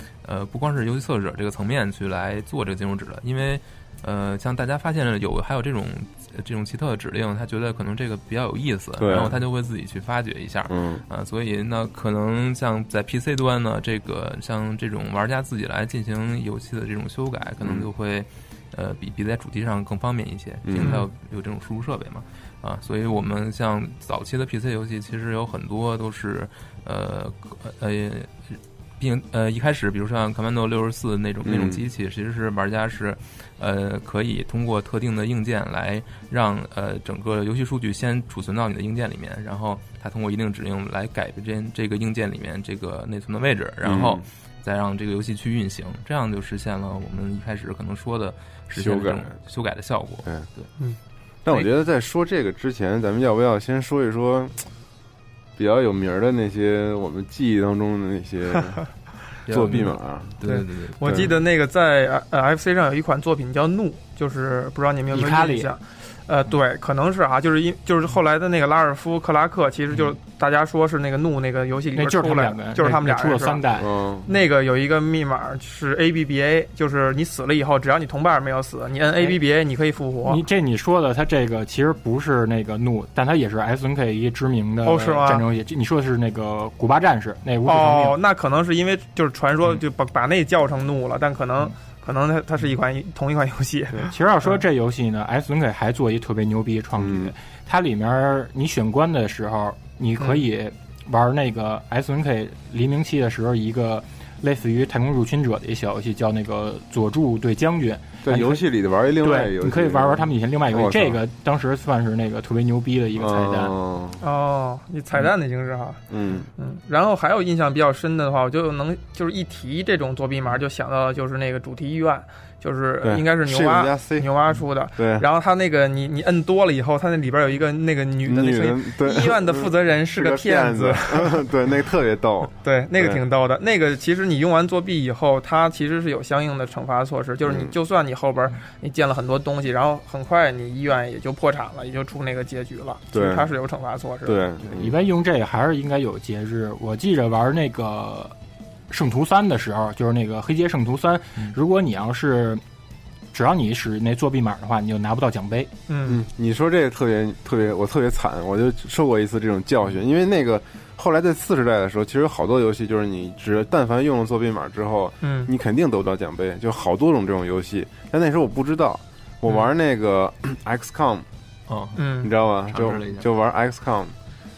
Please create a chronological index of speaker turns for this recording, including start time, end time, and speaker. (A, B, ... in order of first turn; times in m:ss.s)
0:00.2-0:50.7 A
0:09.0-0:09.4 B
0:10.7-0:11.0 B
0:17.6-0:17.9 B
0:20.6-0:21.0 B
0:31.4-0:31.8 B
0:43.8-0:44.2 B
0:48.7-0:49.4 B
0:51.4-0:54.6 B
0:55.6-0:58.9 B
0:59.5-1:00.4 B
0:59.5-1:01.1 A
1:00.4-1:13.6 C
1:01.0-1:01.3 B
1:05.1-1:05.7 D
1:11.9-1:13.9 D
1:13.8-1:14.3 B
1:14.2-1:20.4 C
1:20.2-1:28.2 D
1:24.8-1:25.4 C
1:27.6-1:34.1 C
1:33.9-1:53.7 D
1:37.0-1:37.3 B
1:40.2-1:40.4 C
1:48.2-1:51.2 B
1:53.2-1:54.2 B
1:54.2-1:56.0 C
1:56.1-1:56.5 B
1:56.6-2:11.5 C
2:03.0-2:04.3 B
2:05.0-2:05.2 B
2:08.2-2:13.2 B
2:12.6-2:24.5 C
2:17.4-2:17.7 B
2:23.1-2:23.5 B
2:24.2-2:24.9 B
2:24.7-2:28.3 D
2:28.9-2:32.6 D
2:33.3-2:35.7 D
2:35.9-2:36.2 C
2:36.0-2:51.2 B
2:45.2-2:45.5 C
2:51.7-2:53.3 A
2:52.0-2:52.3 C
2:52.2-2:54.1 B